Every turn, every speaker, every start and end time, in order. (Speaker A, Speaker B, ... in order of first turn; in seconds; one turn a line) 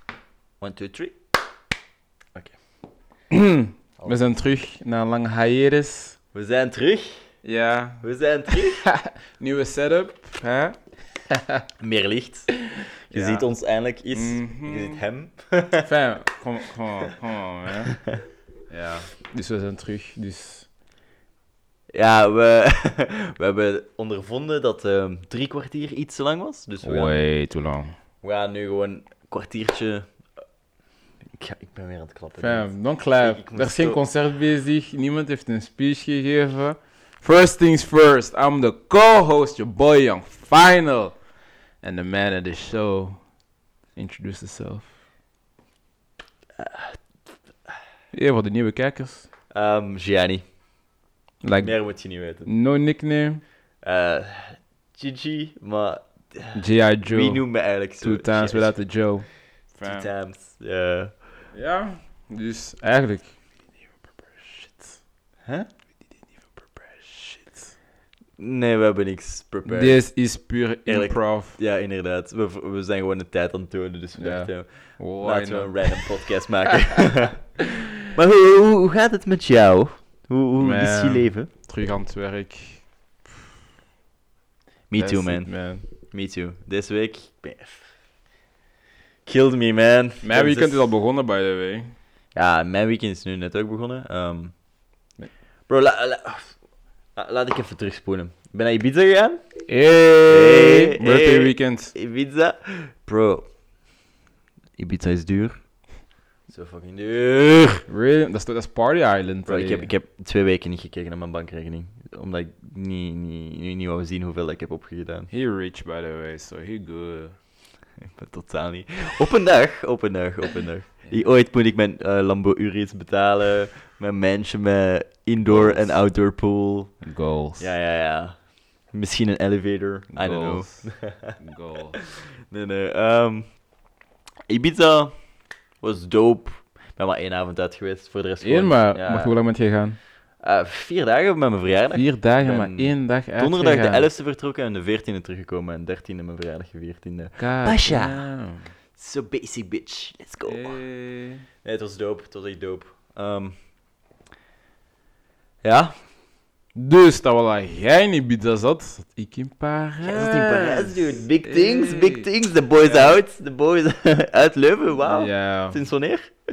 Speaker A: 0.6-1.1
Speaker B: 3.3-6.2
Speaker A: 6.3-7.1
Speaker B: 7.4-8.0
Speaker A: 8.0-8.8
Speaker B: 8.5-10.8
Speaker B: 11.3-11.6
Speaker A: 11.8-12.5
Speaker B: 13.1-13.4
Speaker A: 13.1-15.9
Speaker B: 14.1-15.0
Speaker B: 15.8-17.9
Speaker B: 18.7-20.7
Speaker A: 21.9-27.2
Speaker B: 26.8-27.9
Speaker A: 28.2-30.1
Speaker A: 31.3-34.0
Speaker B: 32.4-41.2
Speaker B: 41.8-43.2
Speaker B: 44.0-44.9
Speaker A: 46.6-47.0
Speaker B: 48.1-49.3
Speaker A: 49.5-50.4
Speaker B: 51.4-51.8
Speaker A: 51.6-52.5
Speaker B: 52.5-53.4
Speaker A: 53.8-58.8
Speaker B: 56.5-57.4
Speaker B: 58.0-60.1
Speaker A: 59.8-61.1
Speaker B: 61.5-63.3
Speaker B: 64.3-65.0
Speaker B: 66.8-67.7
Speaker A: 68.4-70.0
Speaker B: 69.7-71.6
Speaker A: 70.8-81.5
Speaker B: 74.2-76.1
Speaker B: 80.6-82.8
Speaker A: 84.9-85.5
Speaker B: 85.0-85.8
Speaker A: 86.0-87.9
Speaker A: 89.2-90.8
Speaker B: 90.2-91.9
Speaker A: 92.3-94.5
Speaker A: 95.7-96.5
Speaker A: 97.2-99.4
Speaker B: 99.7-101.9
Speaker A: 100.3-103.5
Speaker A: 104.8-105.6
Speaker A: 106.5-107.8
Speaker B: 107.9-109.9
Speaker A: 109.5-115.3
Speaker B: 115.3-117.3
Speaker A: 118.0-126.9
Speaker B: 125.5-126.0
Speaker B: 127.0-127.7
Speaker A: 127.6-128.3
Speaker A: 128.9-131.3
Speaker B: 130.1-132.0
Speaker A: 132.0-133.6
Speaker A: 134.5-135.1
Speaker A: 135.8-139.3
Speaker B: 138.4-140.0
Speaker A: 140.4-148.2
Speaker B: 141.9-144.1
Speaker B: 147.4-148.7
Speaker A: 148.9-150.8
Speaker B: 150.5-151.4
Speaker A: 151.6-153.5
Speaker A: 155.6-155.9
Speaker B: 156.7-163.2
Speaker A: 160.0-166.3
Speaker B: 164.9-165.8